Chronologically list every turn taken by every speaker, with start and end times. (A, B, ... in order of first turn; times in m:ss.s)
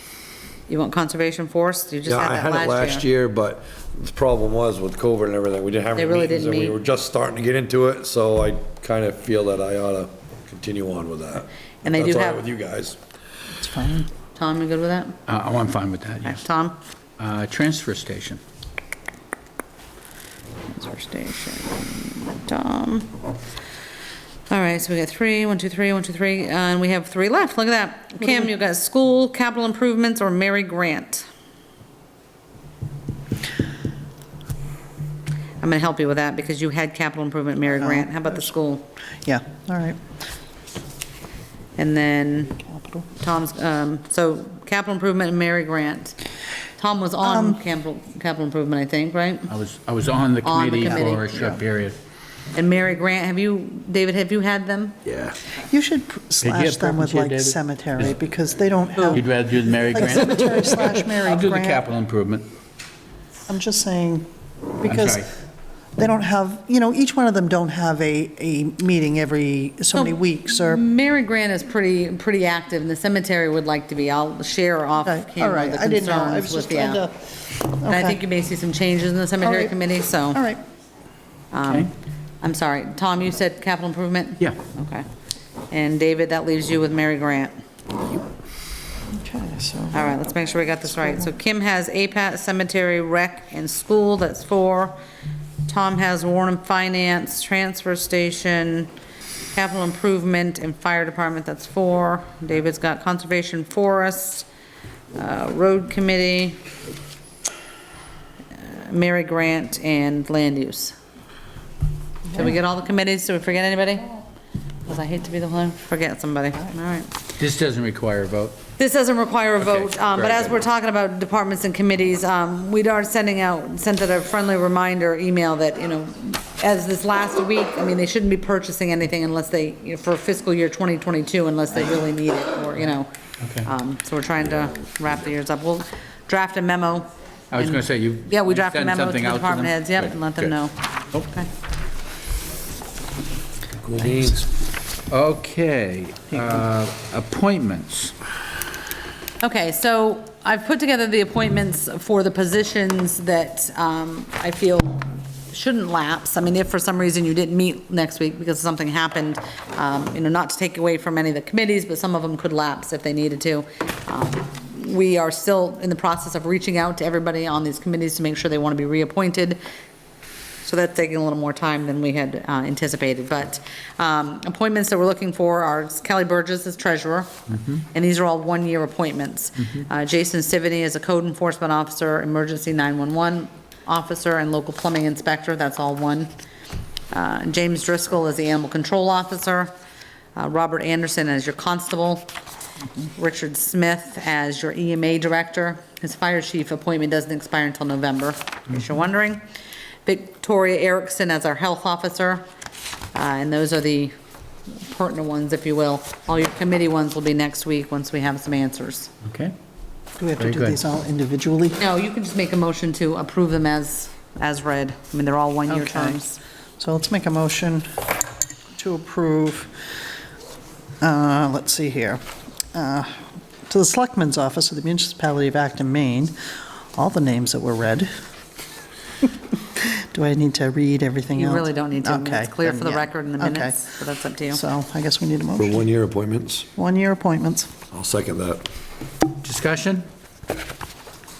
0:00.7-0:03.0 A
0:02.0-0:13.0 B
0:05.9-0:06.8 A
0:11.8-0:12.4 A
0:13.5-0:14.1 C
0:14.3-0:15.2 A
0:15.3-0:16.4 D
0:16.2-0:16.8 A
0:17.2-0:18.4 D
0:20.7-0:23.1 A
0:24.5-0:31.2 A
0:35.6-0:38.8 A
0:37.7-0:38.5 C
0:39.2-0:40.0 C
0:41.8-0:42.6 A
0:42.6-0:43.1 C
0:43.2-0:46.2 A
0:46.8-0:49.5 A
0:47.2-0:47.6 C
0:49.5-0:52.0 D
0:50.4-0:51.6 A
0:52.5-0:55.0 A
0:55.0-0:55.4 D
0:55.6-0:59.2 C
0:56.4-0:58.0 D
0:59.1-1:02.5 D
0:59.9-1:01.8 C
1:03.5-1:05.3 C
1:04.9-1:05.3 D
1:06.0-1:10.8 C
1:09.9-1:17.1 A
1:15.0-1:18.2 C
1:17.9-1:20.4 A
1:19.4-1:19.7 C
1:20.3-1:20.6 C
1:21.5-1:21.9 A
1:21.6-1:21.9 D
1:22.4-1:25.0 A
1:25.7-1:27.6 A
1:29.1-1:30.3 C
1:29.9-1:35.0 A
1:31.0-1:31.2 C
1:35.7-1:38.9 A
1:39.5-1:44.5 A
1:45.1-1:46.6 A
1:48.6-1:51.0 A
1:52.3-1:54.2 A
1:54.8-1:57.1 A
1:57.4-1:58.6 D
1:58.8-2:21.5 A
1:59.6-2:00.6 D
2:13.4-2:13.7 D
2:17.5-2:20.5 D
2:23.8-2:24.5 B
2:25.1-2:28.1 D
2:29.4-2:49.6 A
2:50.6-3:06.3 A
3:07.1-3:09.7 A
3:10.4-3:12.3 A
3:13.0-3:19.4 A
3:20.0-3:22.4 A
3:23.1-3:24.1 A
3:24.7-3:29.1 A
3:29.2-3:29.5 D
3:30.2-3:31.8 C
3:30.4-3:30.8 D
3:31.8-3:36.4 A
3:35.7-3:36.2 C
3:36.8-3:38.0 C
3:38.7-3:39.8 C
3:41.0-3:42.2 C
3:42.7-3:46.3 C
3:46.9-3:48.1 C
3:49.8-3:53.9 C
3:51.3-3:54.6 A
3:54.5-3:55.8 C
3:55.6-3:56.7 B
3:56.7-3:57.7 C
3:57.9-3:58.7 B
3:59.4-4:00.0 D